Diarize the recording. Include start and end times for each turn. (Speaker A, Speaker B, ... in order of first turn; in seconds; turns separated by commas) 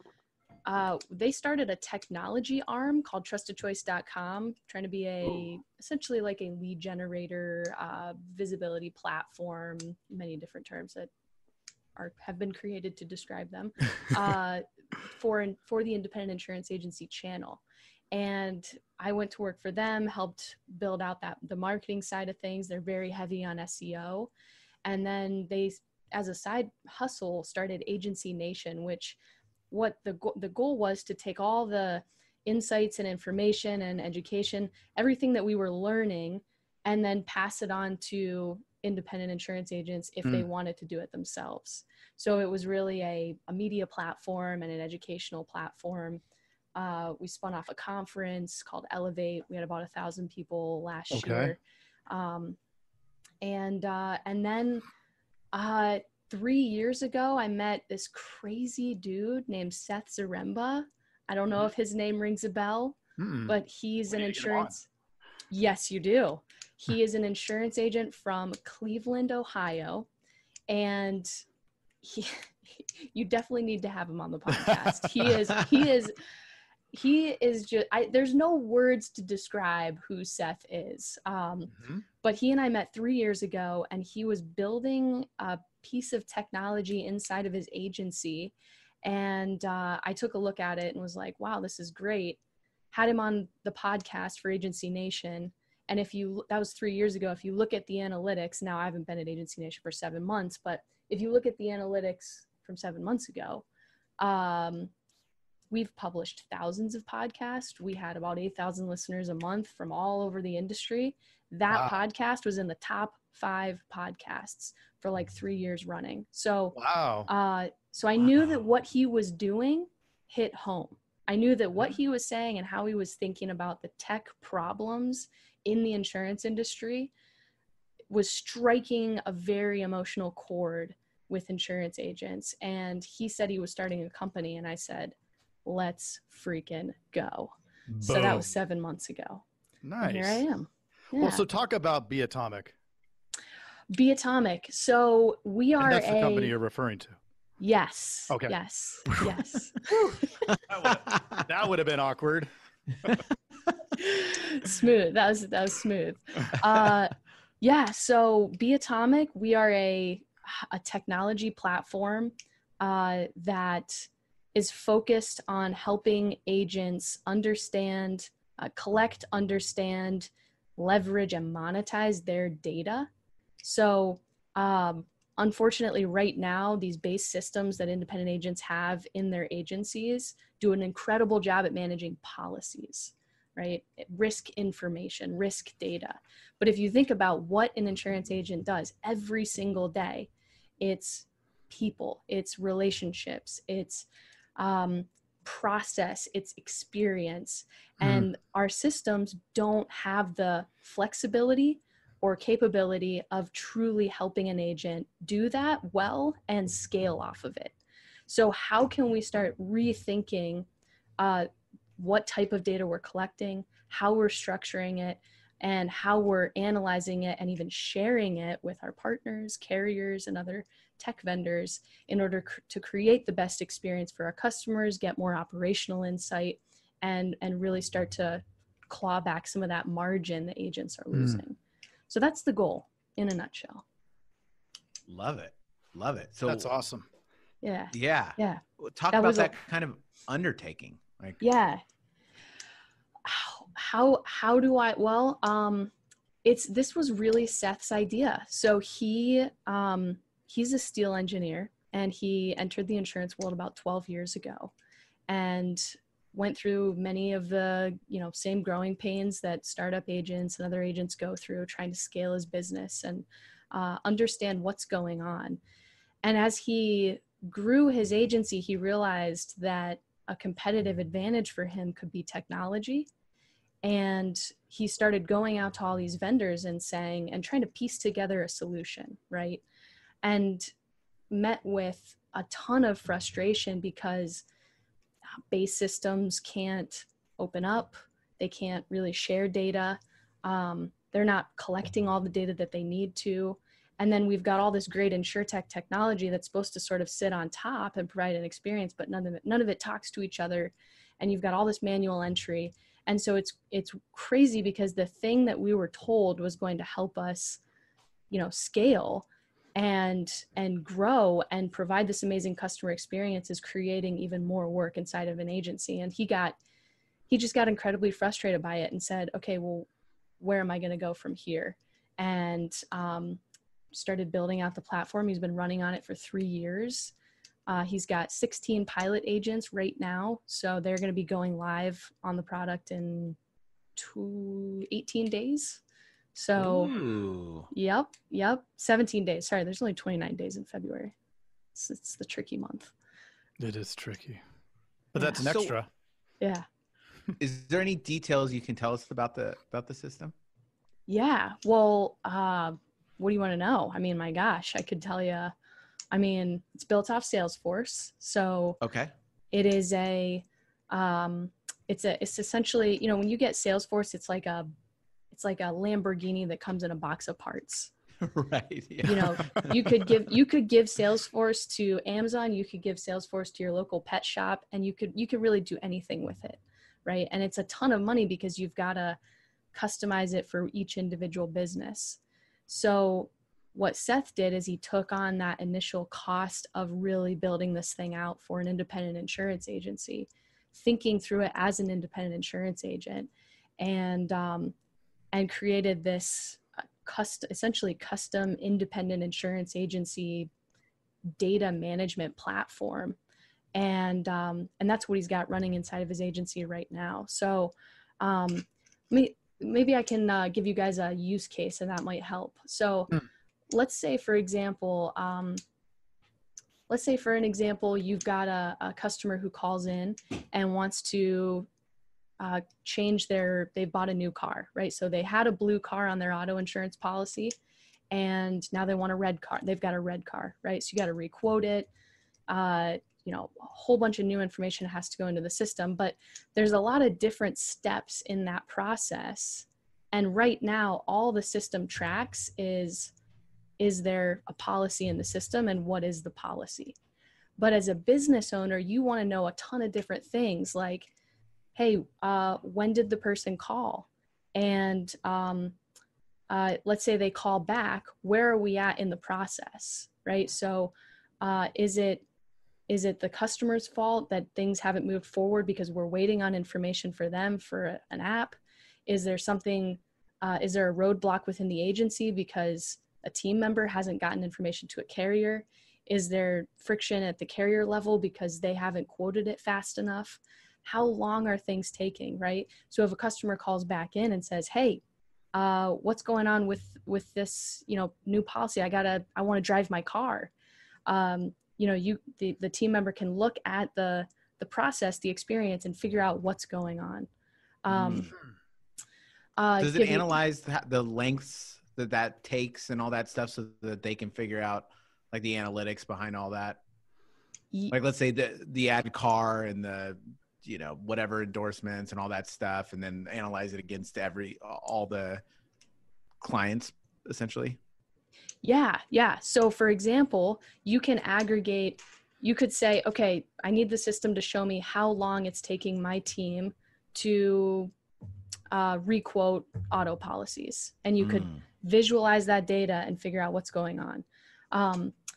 Speaker A: 0.7-11.1, Speaker A: 12.0-17.6, Speaker A: 18.1-24.3, Speaker A: 24.9-29.2, Speaker A: 29.7-46.2, Speaker A: 46.8-52.6, Speaker B: 51.1-51.5, Speaker A: 53.4-54.9, Speaker A: 55.5-64.9, Speaker B: 63.2-63.6, Speaker B: 64.1-64.7, Speaker A: 65.5-70.1, Speaker A: 70.7-71.3, Speaker A: 72.0-76.2, Speaker B: 74.5-75.2, Speaker A: 76.9-92.4, Speaker B: 81.8-82.0, Speaker A: 92.9-103.7, Speaker A: 104.2-104.9, Speaker A: 105.7-116.8, Speaker B: 111.7-112.0, Speaker B: 116.7-117.3, Speaker A: 117.3-127.1, Speaker A: 128.1-135.1, Speaker A: 135.7-137.5, Speaker B: 137.9-138.5, Speaker A: 138.0-139.4, Speaker B: 139.8-140.4, Speaker A: 140.0-141.4, Speaker B: 141.1-142.7, Speaker A: 143.9-146.5, Speaker B: 145.8-147.2, Speaker A: 147.6-150.5, Speaker B: 148.3-148.6, Speaker B: 149.1-149.4, Speaker B: 150.7-152.5, Speaker A: 154.0-173.1, Speaker A: 173.6-190.3, Speaker A: 190.8-207.8, Speaker B: 198.0-198.3, Speaker A: 208.3-210.7, Speaker A: 211.2-231.6, Speaker B: 231.1-231.4, Speaker A: 232.1-233.8, Speaker C: 235.1-236.7, Speaker B: 236.5-237.1, Speaker A: 237.6-239.5, Speaker C: 237.9-241.4, Speaker A: 241.4-241.8, Speaker A: 243.2-245.9, Speaker A: 246.4-254.7, Speaker A: 255.3-265.6, Speaker A: 266.2-273.1, Speaker A: 273.8-279.6, Speaker A: 280.2-280.7, Speaker A: 281.3-284.4, Speaker A: 285.5-307.6, Speaker A: 308.3-316.6, Speaker A: 317.3-319.9, Speaker A: 320.4-323.4, Speaker A: 323.9-327.1, Speaker A: 327.7-333.4, Speaker A: 334.0-335.8, Speaker A: 336.4-336.9, Speaker C: 336.6-337.7, Speaker A: 337.7-341.1, Speaker A: 341.8-342.9, Speaker B: 343.6-344.4, Speaker B: 345.1-345.9, Speaker C: 345.4-345.8, Speaker A: 346.4-346.7, Speaker C: 347.4-350.3, Speaker A: 351.1-355.5, Speaker A: 356.1-358.8, Speaker C: 358.8-359.1, Speaker A: 359.5-364.7, Speaker A: 365.3-367.9, Speaker C: 368.2-370.1, Speaker A: 369.0-379.2, Speaker A: 379.7-394.8, Speaker A: 395.3-400.5, Speaker A: 401.4-403.2, Speaker A: 403.8-413.1, Speaker A: 413.7-415.6, Speaker A: 416.9-421.7, Speaker A: 422.4-427.6, Speaker A: 428.1-431.9, Speaker A: 432.5-443.1, Speaker A: 443.8-447.0, Speaker A: 447.6-451.1, Speaker A: 451.8-455.8, Speaker A: 456.5-462.2, Speaker A: 462.9-485.0, Speaker A: 485.5-490.5, Speaker A: 491.1-497.3, Speaker A: 497.9-498.3, Speaker C: 497.9-498.3, Speaker A: 499.6-500.4, Speaker C: 499.8-506.8, Speaker C: 507.9-515.4, Speaker C: 516.4-517.8, Speaker A: 518.6-527.9, Speaker A: 528.7-535.1, Speaker C: 531.2-531.6